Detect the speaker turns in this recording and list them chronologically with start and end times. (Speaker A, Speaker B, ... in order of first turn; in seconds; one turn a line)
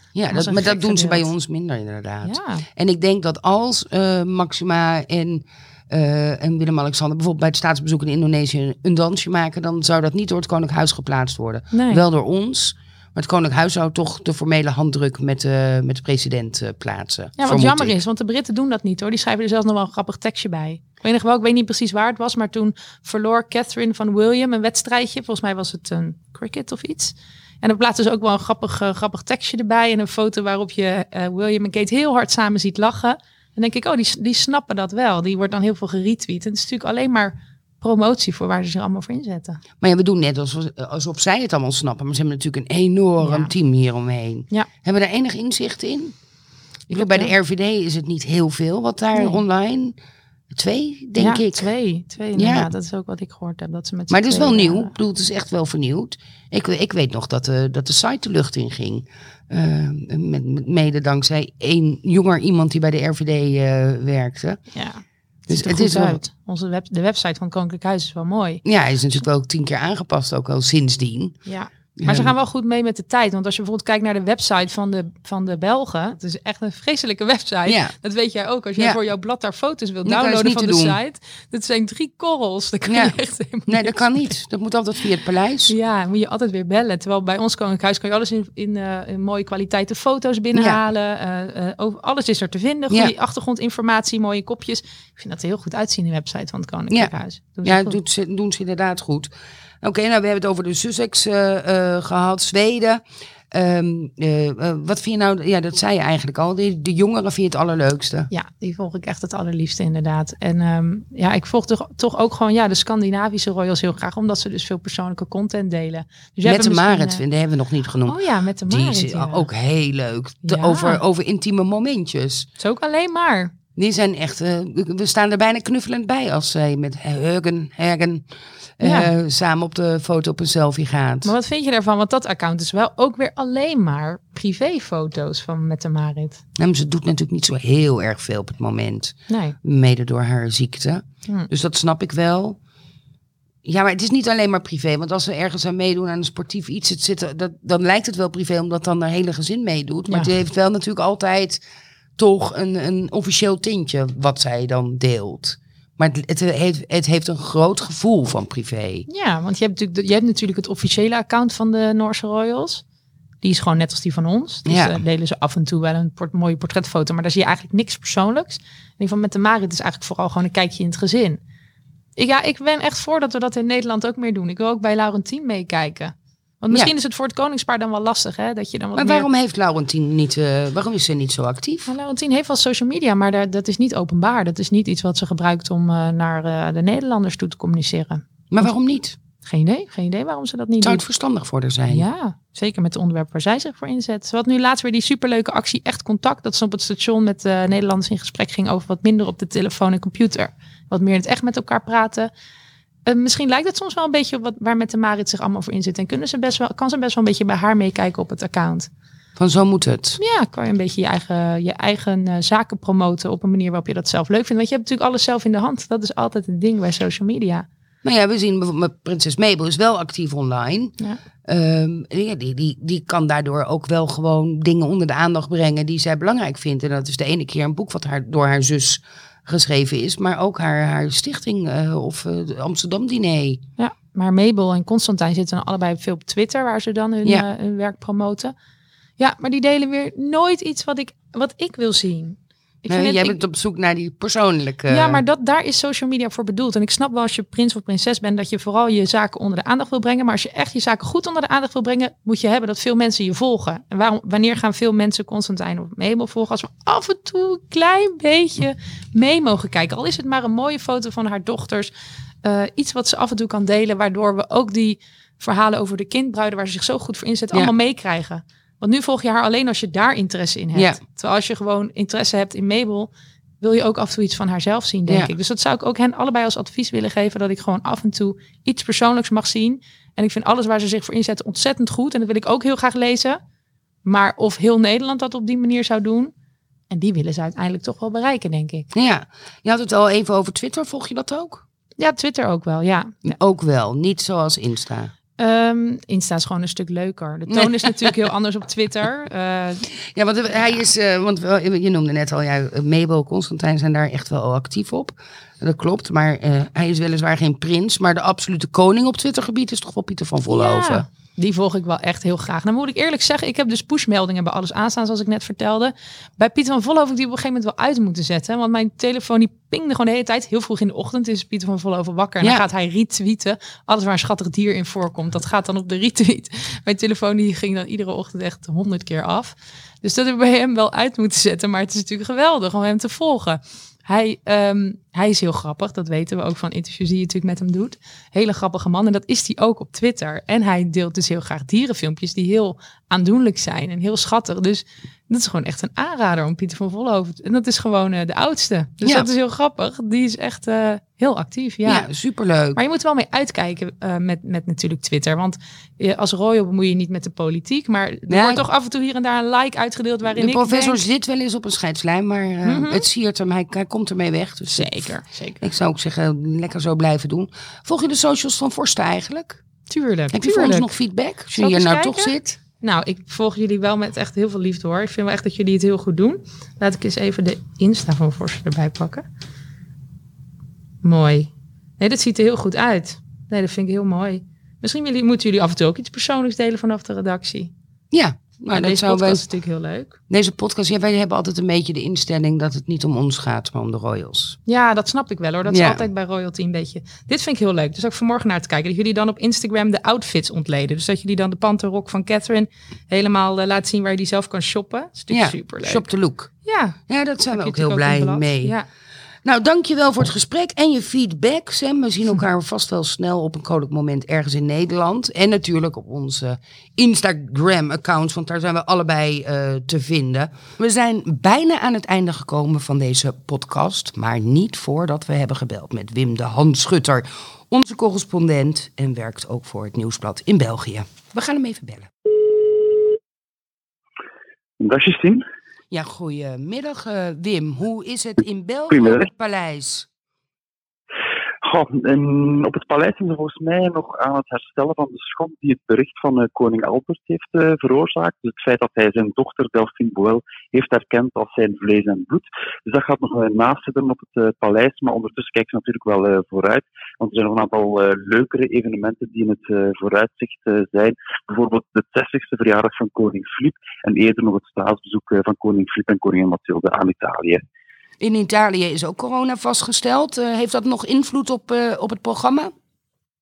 Speaker A: 0.1-18.0
Speaker B: 0.3-1.3
Speaker B: 2.2-2.6
Speaker B: 11.7-12.0
Speaker B: 17.4-39.6
Speaker A: 39.8-46.1
Speaker B: 43.2-43.5
Speaker B: 46.9-47.3
Speaker A: 46.9-49.9
Speaker B: 49.1-49.4
Speaker A: 50.5-51.7
Speaker B: 51.2-54.9
Speaker A: 52.4-52.7
Speaker A: 54.1-64.6
Speaker B: 64.7-68.6
Speaker A: 65.5-66.2
Speaker A: 68.6-71.3
Speaker B: 71.5-84.2
Speaker A: 72.0-72.3
Speaker A: 77.7-77.9
Speaker A: 80.0-81.0
Speaker A: 82.9-83.1
Speaker A: 83.7-85.7
Speaker B: 85.7-98.0
Speaker A: 90.5-90.8
Speaker A: 97.6-99.3
Speaker A: 99.8-108.3
Speaker B: 108.3-117.2
Speaker A: 116.4-118.2
Speaker B: 118.0-119.5
Speaker A: 118.7-122.5
Speaker B: 120.4-121.0
Speaker B: 122.6-123.5
Speaker A: 123.8-128.2
Speaker A: 128.8-131.3
Speaker B: 128.8-129.1
Speaker B: 131.2-136.4
Speaker A: 136.6-142.6
Speaker B: 139.3-139.6
Speaker A: 143.6-151.6
Speaker A: 152.2-159.1
Speaker B: 159.1-162.8
Speaker B: 163.4-171.4
Speaker A: 164.7-165.0
Speaker B: 172.2-179.3
Speaker A: 178.9-181.9
Speaker B: 181.9-188.7
Speaker A: 188.5-189.2
Speaker B: 189.4-191.0
Speaker A: 190.8-192.0
Speaker B: 191.9-202.3
Speaker B: 203.1-208.9
Speaker A: 209.4-210.2
Speaker B: 210.2-217.7
Speaker A: 218.0-220.9
Speaker A: 221.5-233.6
Speaker B: 233.8-238.5
Speaker B: 239.2-243.4
Speaker A: 242.9-245.2
Speaker B: 244.9-261.9
Speaker B: 262.4-273.1
Speaker A: 270.7-271.0
Speaker B: 273.6-283.4
Speaker B: 284.0-286.3
Speaker B: 286.9-288.9
Speaker A: 288.9-291.6
Speaker B: 292.0-293.3
Speaker A: 293.2-295.1
Speaker B: 295.4-299.9
Speaker A: 297.5-297.9
Speaker A: 300.1-311.1
Speaker B: 300.5-300.8
Speaker B: 310.5-352.1
Speaker A: 349.0-349.3
Speaker A: 351.8-352.8
Speaker B: 352.8-361.0
Speaker A: 358.3-358.6
Speaker A: 360.3-369.6
Speaker B: 362.6-363.0
Speaker B: 364.7-365.6
Speaker B: 369.9-370.9
Speaker A: 370.3-372.6
Speaker B: 371.6-379.2
Speaker B: 381.0-387.7
Speaker A: 388.1-389.4
Speaker B: 388.7-390.2
Speaker A: 390.3-394.6
Speaker B: 394.7-406.1
Speaker A: 395.6-396.0
Speaker A: 405.3-406.5
Speaker B: 406.6-407.0
Speaker A: 407.1-408.7
Speaker B: 407.5-408.8
Speaker A: 409.4-432.1
Speaker C: 434.8-435.4
Speaker A: 435.9-440.1
Speaker C: 438.9-439.3
Speaker C: 441.6-467.6
Speaker A: 468.2-472.7